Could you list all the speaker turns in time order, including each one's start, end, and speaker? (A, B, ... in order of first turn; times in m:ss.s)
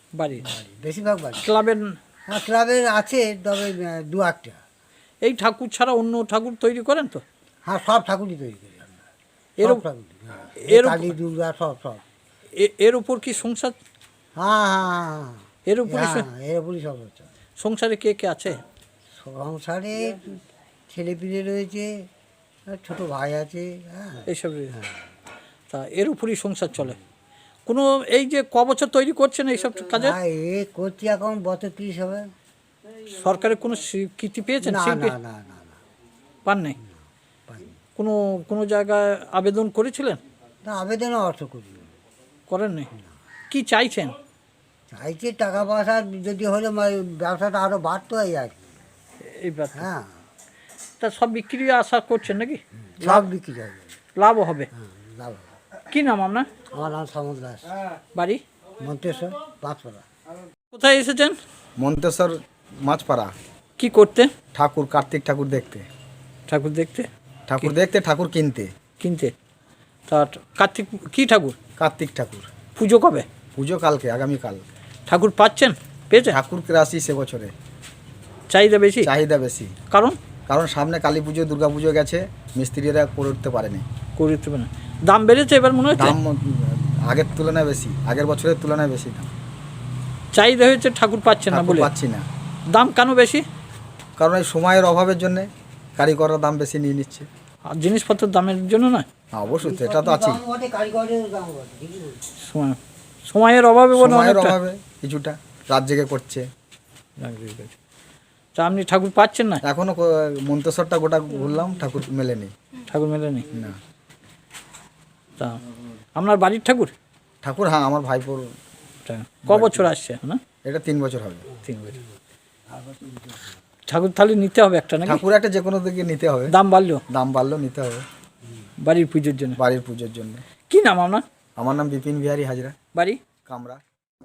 0:00.2-0:00.5 A
0:00.4-0:01.4 B
0:01.4-0:02.0 A
0:02.3-0:04.6 B
0:05.2-0:07.2 A
0:07.6-0:09.0 B
0:09.6-0:12.0 B
0:10.7-0:11.1 A
0:12.6-0:13.7 A
0:14.4-0:17.3 B
0:15.7-0:16.2 A
0:17.6-0:18.6 A
0:19.2-0:22.1 B
0:22.7-0:25.0 B
0:24.3-0:24.7 A
0:25.7-0:27.0 A
0:27.7-0:30.2 A
0:29.9-0:32.3 B
0:33.1-0:35.1 A
0:34.6-0:35.8 B
0:36.4-0:36.8 A
0:37.5-0:37.8 B
0:38.0-0:40.2 A
0:40.6-0:41.9 B
0:42.5-0:42.9 A
0:43.5-0:44.1 A
0:44.9-0:48.7 B
0:49.3-0:49.9 A
0:49.8-0:50.1 B
0:51.0-0:53.3 A
0:53.0-0:54.0 B
0:54.2-0:54.7 A
0:54.8-0:55.5 B
0:55.9-0:56.5 A
0:56.7-0:57.8 B
0:58.1-0:58.4 A
0:58.8-1:00.0 B
1:00.7-1:01.4 A
1:01.8-1:03.3 C
1:03.8-1:04.3 A
1:04.5-1:05.9 C
1:06.5-1:07.1 A
1:07.5-1:08.7 C
1:09.0-1:09.3 A
1:10.1-1:11.6 A
1:11.8-1:12.5 C
1:12.8-1:13.2 A
1:13.6-1:14.6 C
1:15.1-1:16.4 A
1:16.3-1:17.5 C
1:18.5-1:19.1 A
1:19.0-1:19.7 C
1:19.9-1:20.2 A
1:20.5-1:23.8 C
1:24.2-1:26.2 A
1:26.0-1:29.3 C
1:30.3-1:31.9 A
1:31.5-1:32.2 C
1:32.7-1:33.4 A
1:34.2-1:37.3 C
1:37.7-1:39.1 A
1:39.4-1:40.4 C
1:39.6-1:42.2 B
1:42.4-1:44.6 A
1:43.9-1:46.4 C
1:47.2-1:47.8 A
1:48.6-1:49.6 A
1:49.6-1:52.5 C
1:52.9-1:53.5 A
1:56.2-1:56.9 A
1:57.4-1:58.5 C
1:59.1-2:00.4 A
1:59.5-1:59.9 C
2:00.6-2:01.5 C
2:01.7-2:02.0 A
2:03.0-2:03.4 B
2:03.9-2:05.2 A
2:05.1-2:06.5 C
2:06.5-2:07.0 A
2:07.1-2:08.1 C
2:08.8-2:09.6 A
2:09.6-2:10.4 C
2:10.7-2:11.2 A
2:11.6-2:12.8 C
2:13.5-2:13.8 C